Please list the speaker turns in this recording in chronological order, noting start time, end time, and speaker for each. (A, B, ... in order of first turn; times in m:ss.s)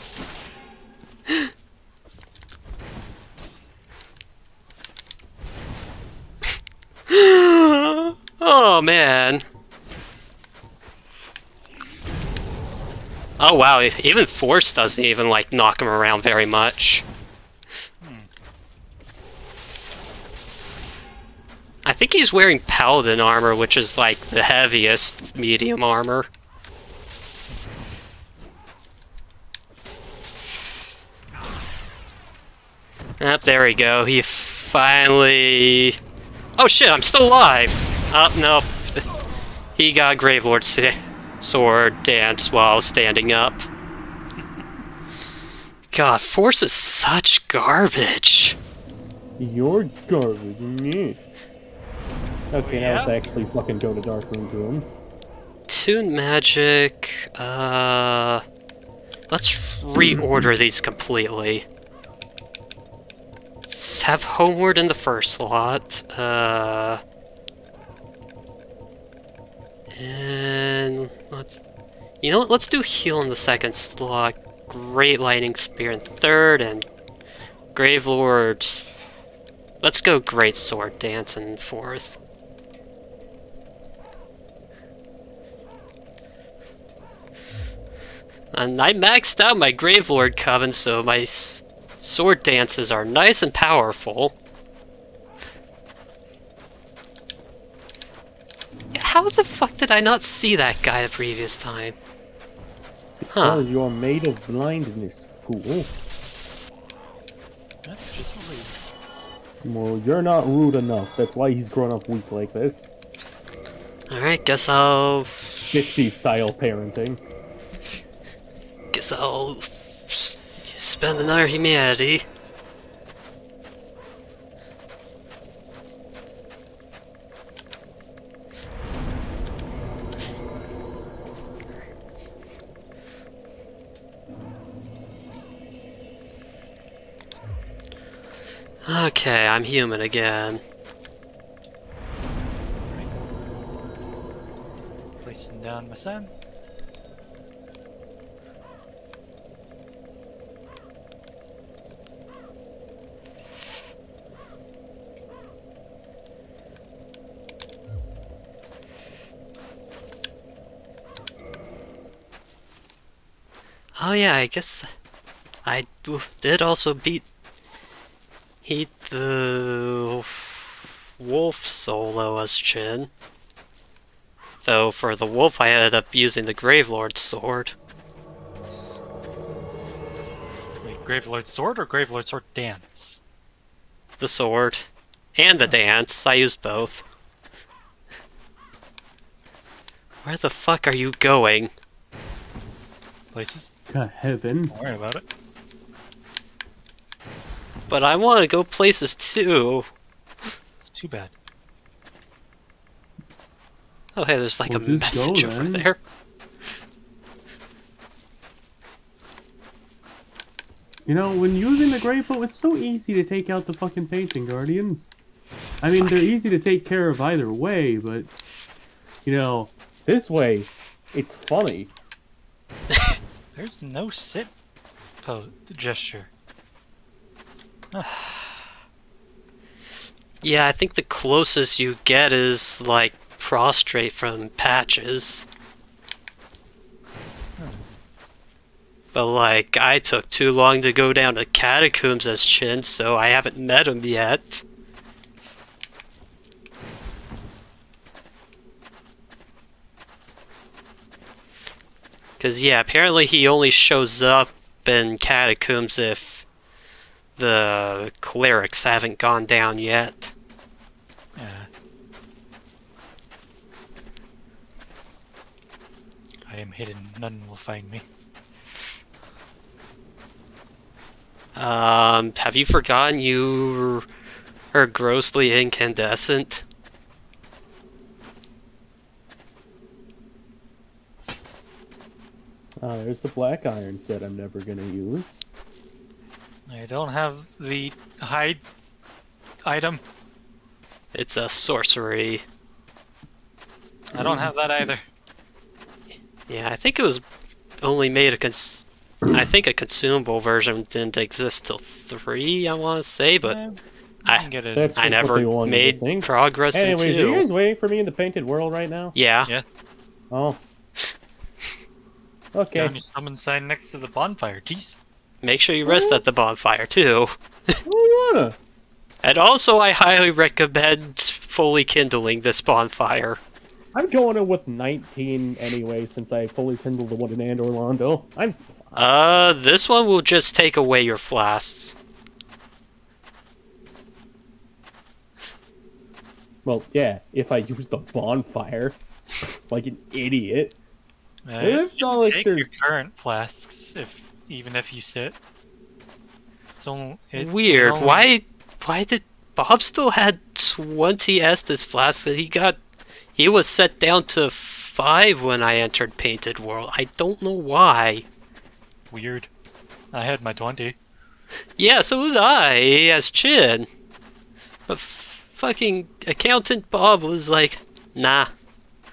0:07.1-0:09.4 A
0:13.4-0:17.0 A
0:18.0-0:18.3 B
0:21.8-0:26.3 A
0:33.2-0:36.0 A
0:36.6-0:39.1 A
0:39.8-0:43.7 A
0:45.9-0:48.6 A
0:49.4-0:51.2 C
0:52.5-0:54.9 C
0:52.6-0:53.2 B
0:55.7-0:58.4 A
0:59.3-1:01.7 A
1:03.7-1:07.0 A
1:09.9-1:11.6 A
1:12.2-1:16.9 A
1:17.7-1:18.8 A
1:19.8-1:22.2 A
1:28.5-1:34.4 A
1:38.9-1:42.0 A
1:43.2-1:45.9 C
1:43.3-1:43.6 A
1:47.8-1:48.8 B
1:49.6-1:53.0 C
1:54.1-1:55.7 A
1:55.7-1:57.2 C
1:58.9-2:02.2 A
2:18.9-2:20.6 A
2:22.8-2:23.2 B
2:25.2-2:26.3 B
2:44.0-2:44.9 A
2:45.6-2:47.3 A
2:48.6-2:50.5 A
2:51.2-2:53.1 A
2:54.6-2:57.8 A
3:00.8-3:03.2 B
3:04.2-3:07.0 A
3:10.2-3:11.7 A
3:13.3-3:13.7 B
3:13.9-3:14.7 C
3:14.7-3:15.2 B
3:17.9-3:19.9 A
3:20.8-3:21.3 B
3:24.2-3:26.0 A
3:24.7-3:25.9 C
3:31.1-3:35.1 C
3:35.8-3:38.3 C
3:36.0-3:36.3 A
3:39.2-3:41.9 C
3:43.6-3:44.5 B
3:45.2-3:46.3 B
3:50.4-3:55.5 A
3:59.1-4:04.6 A
4:12.4-4:16.5 A
4:17.4-4:20.3 A
4:21.4-4:21.7 B
4:26.5-4:28.1 B
4:31.6-4:34.0 A
4:34.7-4:36.6 A
4:42.8-4:45.5 C
4:46.7-4:48.6 B
4:49.7-4:50.0 B
4:51.1-4:52.4 A
4:54.1-4:54.5 C
4:54.1-4:55.0 B
4:56.5-4:57.2 A
4:57.8-5:03.6 A
5:03.4-5:05.1 B
5:04.3-5:07.5 A
5:04.8-5:09.2 C
5:09.2-5:09.5 A
5:09.5-5:09.7 B
5:10.3-5:10.6 C
5:12.5-5:13.0 C
5:12.8-5:15.0 B
5:15.4-5:17.8 A
5:15.8-5:16.2 C
5:17.9-5:18.6 C
5:19.2-5:23.4 A
5:23.9-5:28.9 C
5:28.9-5:32.0 A
5:36.6-5:39.0 C
5:39.7-5:40.8 C
5:41.5-5:45.4 B
5:41.6-5:42.7 C
5:46.8-5:48.3 B
5:47.3-5:52.8 A
5:53.3-5:58.2 A
5:59.1-5:59.5 B
6:00.1-6:01.0 B
6:01.8-6:03.9 A
6:04.9-6:08.5 A